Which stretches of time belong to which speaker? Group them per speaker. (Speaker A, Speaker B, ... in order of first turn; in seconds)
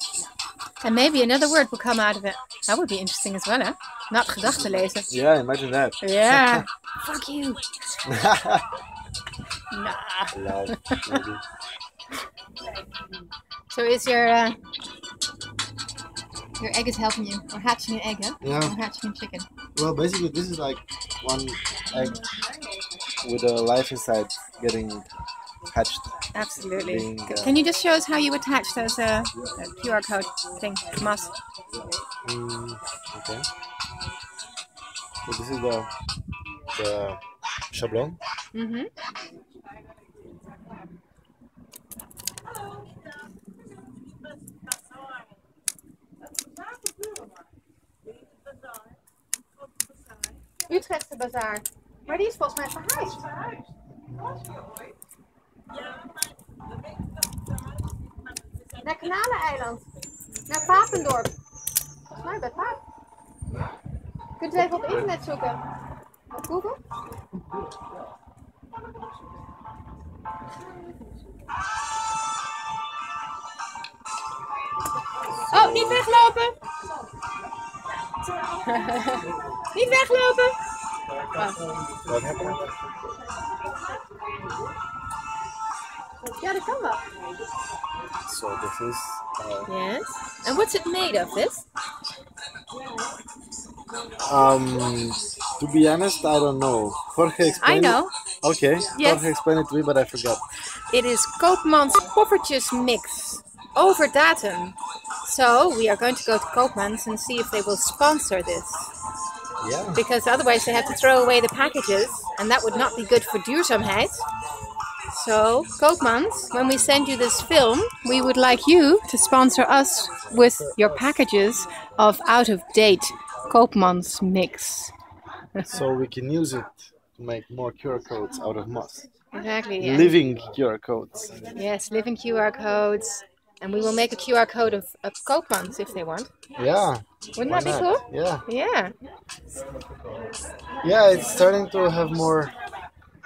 Speaker A: 0.8-5.1, 6.0-7.7, 9.7-11.2, 13.7-14.6, 16.6-19.5, 26.3-31.4, 38.5-38.9, 50.7-53.3, 58.8-59.8, 60.5-61.3, 62.1-62.8, 64.4-65.6, 66.3-66.8, 75.5-76.5, 78.5-80.5, 81.3-81.6, 86.4-87.0, 89.7-91.6, 97.6-98.1, 98.9-99.2, 100.9-108.9, 109.9-114.3, 115.1-124.9, 125.5-125.8, 129.3-130.2, 131.5-136.3, 137.3-138.9
Speaker B: 5.1-6.6, 8.0-8.7, 10.3-11.4, 18.4-18.8, 19.8-22.2, 23.2-25.1, 25.7-26.1, 26.7-27.6, 32.2-33.4, 35.2-35.9, 36.7-38.2, 54.1-54.6, 75.5-76.1, 82.1-82.7, 88.2-89.7, 94.2-100.4, 109.6-110.0, 120.4-120.9, 125.6-129.1, 129.8-131.5, 136.5-138.4, 140.8-142.5